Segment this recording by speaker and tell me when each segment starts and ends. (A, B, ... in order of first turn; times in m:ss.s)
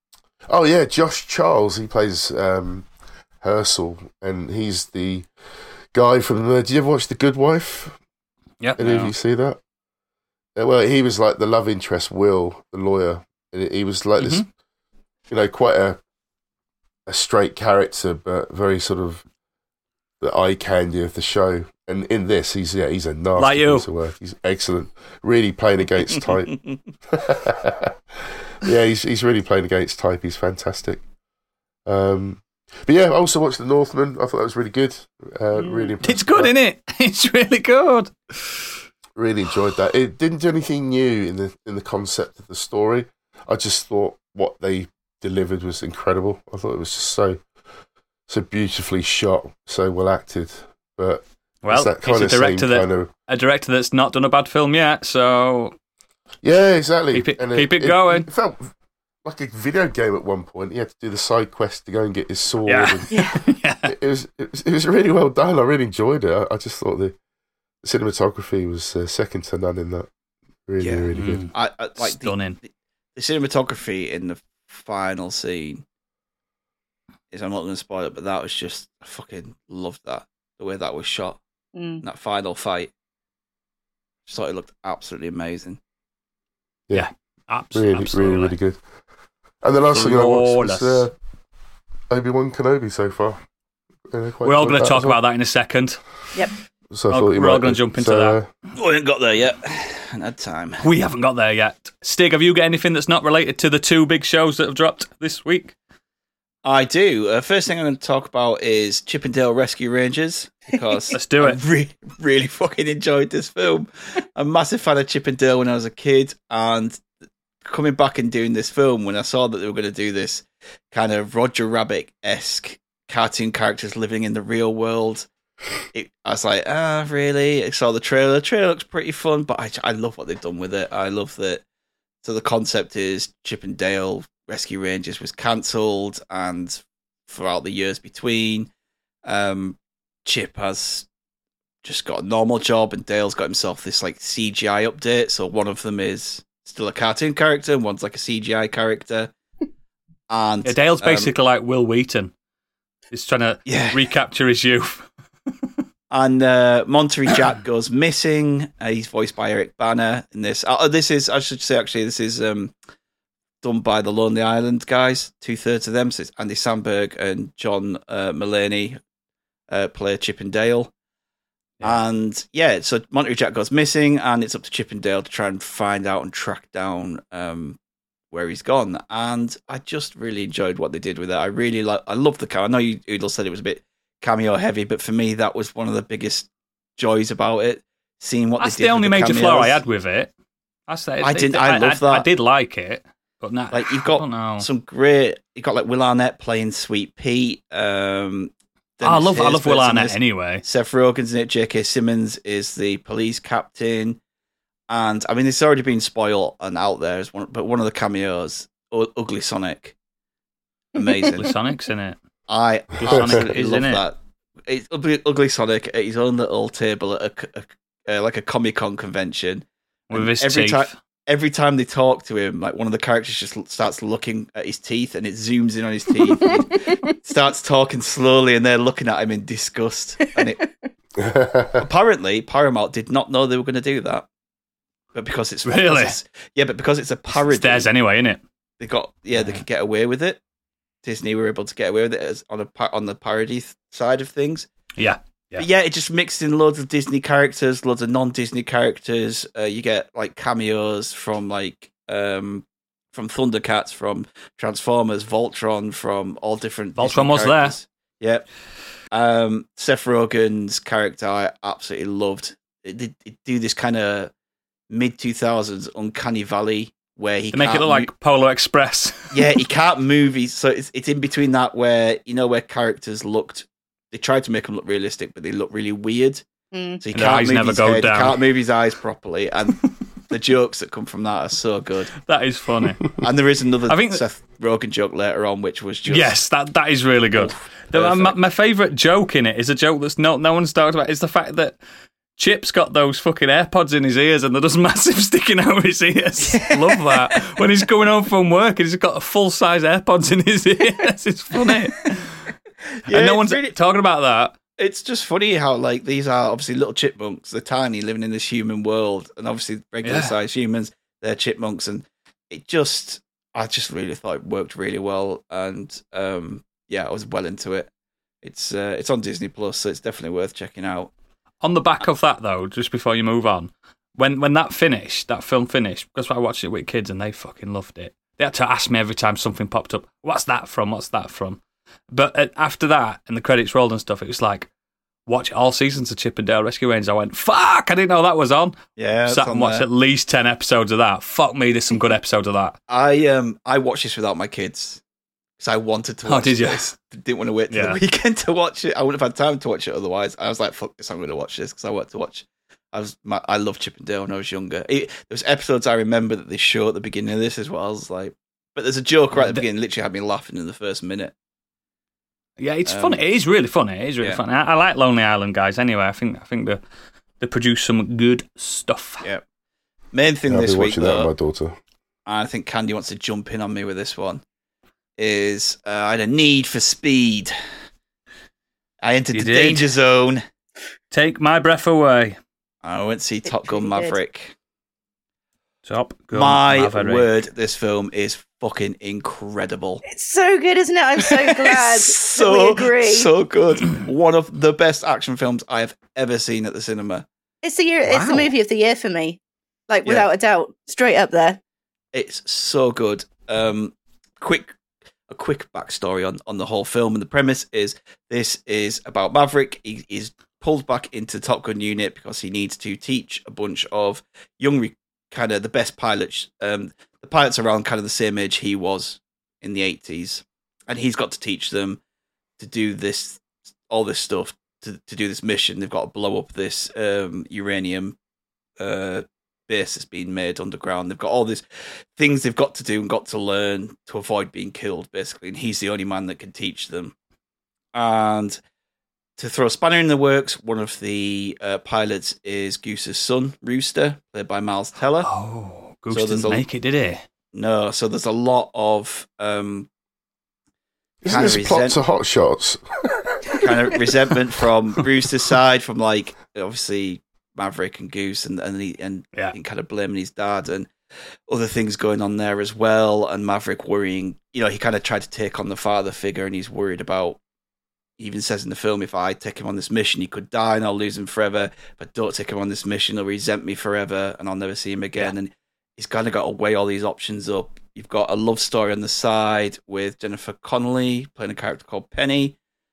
0:00.5-0:02.9 A
0:03.4-0:05.3 A
0:05.9-0:08.0 A
0:08.6-0:09.1 B
0:08.8-0:09.6 A
0:08.8-0:09.1 C
0:10.6-0:14.5 A
0:14.2-0:14.5 B
0:15.3-0:16.0 A
0:17.1-0:19.2 A
0:20.2-0:31.0 A
0:23.4-0:23.9 B
0:31.9-0:36.5 A
0:35.6-0:35.9 D
0:36.0-0:38.7 B
0:39.2-0:47.4 A
0:48.3-0:53.1 A
0:51.6-0:55.8 B
0:56.4-0:58.7 A
0:57.1-0:58.3 B
0:59.2-1:07.2 A
1:02.7-1:04.0 B
1:03.1-1:03.4 D
1:07.8-1:10.1 A
1:10.7-1:11.5 A
1:10.8-1:15.8 C
1:11.1-1:12.6 B
1:17.3-1:21.4 C
1:21.8-1:22.0 D
1:22.0-1:22.9 C
1:24.3-1:25.8 C
1:26.9-1:28.6 B
1:27.7-1:28.8 A
1:29.6-1:31.1 A
1:29.9-1:31.1 B
1:32.1-1:33.4 A
1:34.1-1:35.2 A
1:34.4-1:36.4 B
1:36.9-1:38.5 A
1:37.1-1:38.4 B
1:38.7-1:40.8 C
1:40.8-1:45.8 B
1:46.6-1:57.0 C
1:51.1-1:51.6 B
1:57.6-2:05.3 C
2:05.9-2:11.6 C
2:12.2-2:18.7 C
2:19.2-2:21.1 C
2:21.8-2:29.3 C
2:30.3-2:31.3 C
2:30.6-2:32.3 B
2:33.1-2:35.1 B
2:33.7-2:34.1 C
2:36.1-2:42.7 C
2:43.6-2:49.0 C
2:49.7-2:50.9 C
2:51.8-2:57.8 C
2:58.3-3:09.8 C
3:08.6-3:10.3 B
3:10.9-3:14.7 B
3:11.2-3:12.3 C
3:13.7-3:24.2 C
3:19.0-3:20.6 B
3:24.9-3:30.0 C
3:31.0-3:31.5 C
3:31.0-3:31.3 D
3:31.4-3:32.2 B
3:32.5-3:50.6 C
3:33.0-3:34.0 B
3:40.1-3:40.9 B
3:46.2-3:47.0 D
3:50.4-3:50.6 D
3:51.2-3:51.8 A
3:51.8-3:54.3 C
3:55.1-3:57.9 C
3:55.7-3:56.2 B
3:57.4-3:58.4 B
3:58.8-4:00.4 C
3:59.4-3:59.6 B
4:01.0-4:04.7 C
4:05.0-4:05.7 B
4:05.6-4:18.5 C
4:17.0-4:17.8 B
4:19.1-4:24.3 C
4:24.9-4:28.1 C
4:27.5-4:29.6 B
4:29.3-4:36.4 C
4:36.7-4:37.0 D
4:37.0-4:42.2 C
4:37.1-4:38.4 B
4:42.2-4:43.2 B
4:43.2-4:46.4 C
4:43.9-4:44.2 B
4:46.1-4:51.8 B
4:47.4-4:48.4 C
4:52.4-5:02.5 B
4:56.4-4:57.5 C
5:03.1-5:03.8 C
5:03.1-5:04.6 B
5:04.8-5:17.9 C
5:10.0-5:10.3 B
5:18.4-5:21.1 C
5:21.6-5:34.7 B
5:35.3-5:42.8 B
5:39.0-5:39.9 C
5:42.9-5:45.0 C
5:45.6-6:01.3 C
5:46.3-5:46.8 B
5:47.7-5:48.0 B
5:59.3-5:59.7 B
6:02.6-6:06.8 B
6:02.9-6:03.2 C
6:07.4-6:09.3 B
6:10.1-6:11.3 C
6:10.5-6:11.8 A
6:12.3-6:14.4 C
6:15.2-6:17.5 C
6:19.0-6:20.4 C
6:19.3-6:19.9 B
6:21.1-6:22.4 B
6:22.8-6:24.6 C
6:23.4-6:24.2 D
6:25.8-6:27.3 B
6:26.3-6:30.0 C
6:30.1-6:33.3 D
6:31.2-6:37.3 C
6:37.6-6:41.6 D
6:38.1-6:38.5 B
6:42.1-6:44.8 C
6:45.3-7:02.0 C
7:02.6-7:08.2 C
7:08.8-7:17.1 C
7:17.9-7:18.6 C
7:19.4-7:25.3 C
7:25.2-7:27.2 B
7:26.1-7:26.6 C
7:27.5-7:29.9 C
7:31.2-7:34.0 A
7:31.2-7:32.0 C
7:33.6-7:40.9 C
7:41.5-7:47.4 C
7:48.2-8:02.6 C